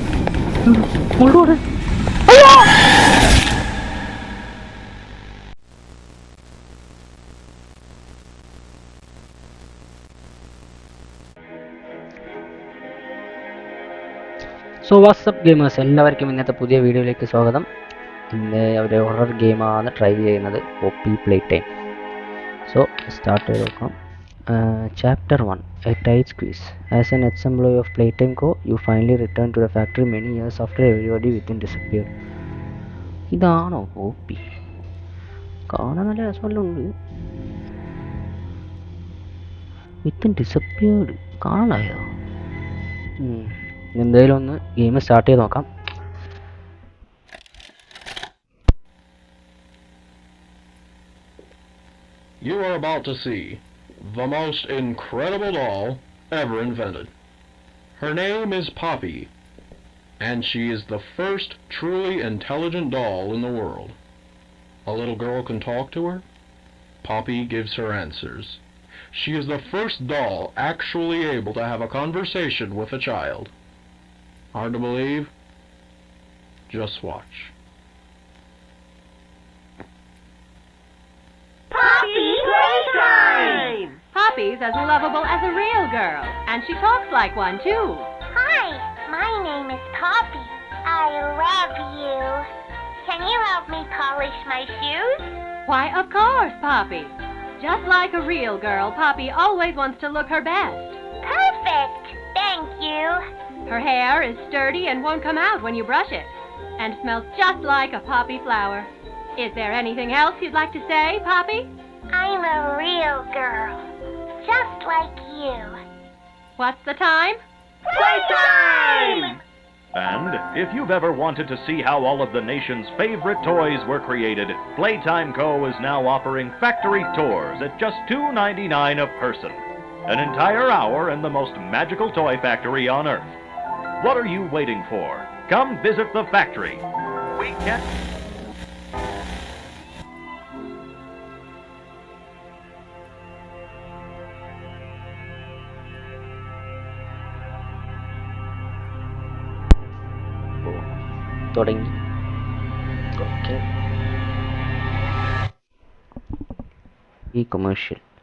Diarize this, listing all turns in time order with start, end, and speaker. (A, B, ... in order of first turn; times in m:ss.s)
0:00.6-0:01.6 A
0:02.3-0:02.7 A
0:14.8-0:17.6 A
0:18.3-0:21.6 A
0:22.7-0:23.9 A
0:24.5-0:32.1 A
0:33.3-0:34.4 A
0:35.7-0:36.9 A
0:40.0-0:42.0 A
0:43.2-0:45.6 A
0:52.4-0:57.1 B
0:58.0-0:59.3 B
1:00.2-1:04.0 B
1:04.8-1:06.2 B
1:07.0-1:08.6 B
1:09.1-1:13.5 B
1:14.5-1:15.3 B
1:16.7-1:17.5 B
1:21.7-1:23.8 C
1:24.1-1:28.1 D
1:28.3-1:32.4 C
1:33.0-1:35.3 C
1:35.6-1:41.0 D
1:41.2-1:43.2 C
1:43.7-1:51.7 D
1:52.1-1:53.8 C
1:54.4-1:55.8 C
1:56.6-1:57.4 D
1:58.7-1:59.3 E
1:59.9-2:13.3 E
2:14.0-2:16.8 E
2:17.3-2:17.9 E
2:31.5-2:31.9 A
2:33.2-2:33.6 A
2:37.3-2:38.0 A